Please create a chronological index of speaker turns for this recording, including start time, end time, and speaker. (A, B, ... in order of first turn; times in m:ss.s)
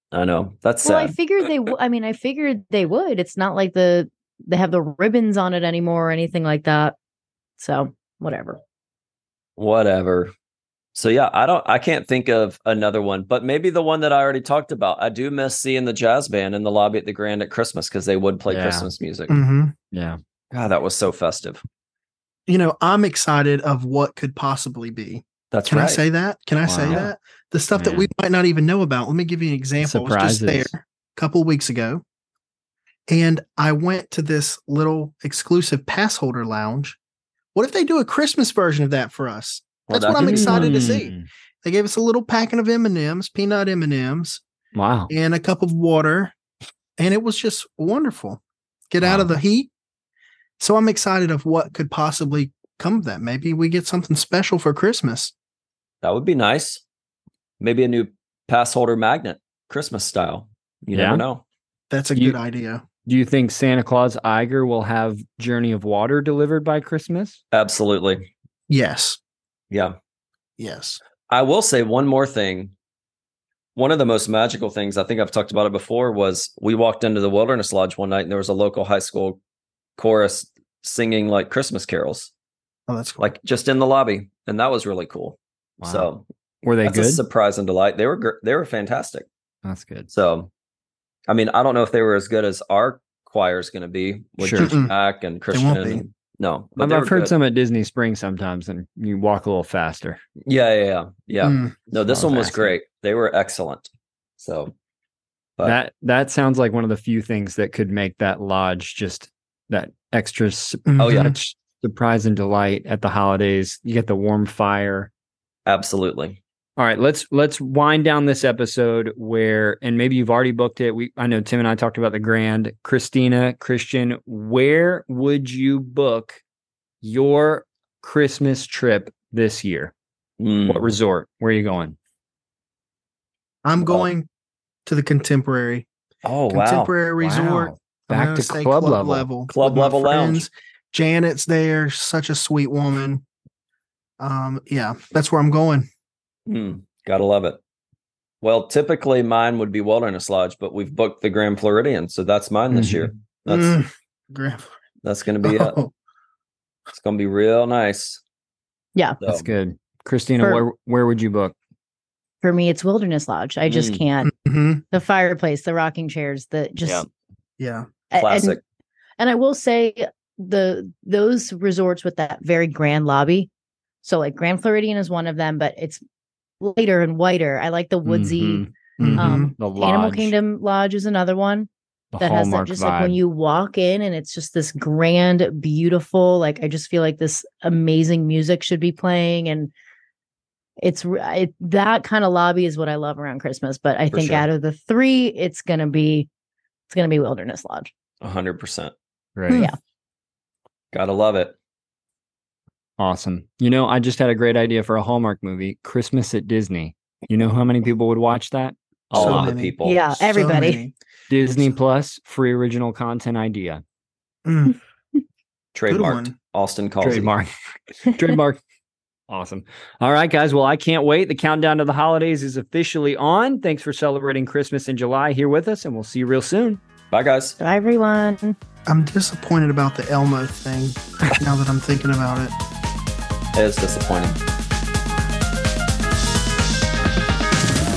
0:00.1-0:01.2 A
0:00.8-0:07.0 B
0:07.6-0:08.6 B
0:09.6-0:10.3 A
0:10.9-0:19.4 A
0:18.5-0:18.9 C
0:19.3-0:19.7 D
0:19.9-0:20.2 C
0:20.5-0:21.6 A
0:22.5-0:32.0 D
0:25.5-0:26.0 A
0:26.6-0:27.0 C
0:27.8-0:28.1 C
0:29.8-0:30.7 C
0:33.1-0:37.0 D
0:37.5-0:44.4 D
0:39.9-0:40.8 A
0:40.1-0:41.3 C
0:44.7-0:45.1 C
0:45.1-0:46.3 D
0:47.0-0:49.7 D
0:49.0-0:49.3 C
0:50.6-0:55.3 D
0:56.0-0:56.8 A
0:57.6-1:01.4 A
1:00.9-1:01.2 C
1:01.9-1:02.8 D
1:03.0-1:07.4 C
1:07.5-1:08.3 A
1:08.7-1:09.2 D
1:10.6-1:11.0 D
1:11.3-1:12.7 A
1:13.7-1:19.4 A
1:20.0-1:22.3 A
1:22.9-1:23.3 D
1:23.2-1:26.2 A
1:25.8-1:26.1 C
1:26.6-1:27.2 C
1:26.8-1:29.2 A
1:29.6-1:30.1 C
1:30.1-1:30.5 A
1:31.3-1:37.3 A
1:34.4-1:34.7 C
1:34.6-1:34.9 D
1:35.5-1:36.0 D
1:36.8-1:40.2 C
1:40.4-1:44.7 A
1:41.4-1:41.7 D
1:42.1-1:42.7 C
1:45.6-1:55.1 C
1:50.9-1:51.4 D
1:51.0-1:51.4 A
1:55.6-1:56.4 A
1:56.8-2:06.4 C
2:07.0-2:09.9 C
2:10.4-2:10.9 A
2:10.7-2:12.0 C
2:13.6-2:14.3 D
2:13.8-2:14.1 A
2:14.8-2:15.9 D
2:16.2-2:16.9 A
2:16.5-2:23.2 D
2:17.2-2:19.3 C
2:19.5-2:20.4 A
2:24.2-2:25.9 D
2:26.5-2:27.6 A
2:28.4-2:33.8 A
2:32.7-2:33.1 C
2:33.5-2:34.7 D
2:35.0-2:35.8 A
2:35.4-2:35.9 D
2:36.9-2:38.2 A
2:39.2-2:39.5 A
2:39.2-2:41.5 C
2:42.4-2:44.3 B
2:43.6-2:44.0 A
2:44.2-2:44.8 D
2:44.9-2:47.0 B
2:47.6-2:47.9 D
2:48.1-2:48.6 B
2:48.2-2:48.6 A
2:49.2-2:53.5 B
2:54.0-2:56.0 B
2:56.6-3:01.7 B
2:58.0-3:00.3 C
2:59.0-2:59.5 D
3:02.1-3:03.2 C
3:02.2-3:09.7 B
3:10.8-3:16.3 B
3:14.1-3:14.4 A
3:16.9-3:17.9 B
3:18.2-3:18.9 A
3:19.4-3:19.6 C
3:19.5-3:19.8 B
3:20.9-3:21.6 A
3:23.0-3:29.5 C
3:29.1-3:30.0 A
3:29.2-3:30.9 D
3:29.8-3:30.8 B
3:31.3-3:33.8 C
3:34.4-3:34.8 D
3:35.7-3:37.3 A
3:35.9-3:36.3 D
3:37.0-3:38.6 C
3:39.3-3:46.8 C
3:47.1-3:47.6 A
3:47.6-3:48.6 B
3:48.9-3:52.5 D
3:53.5-3:54.4 A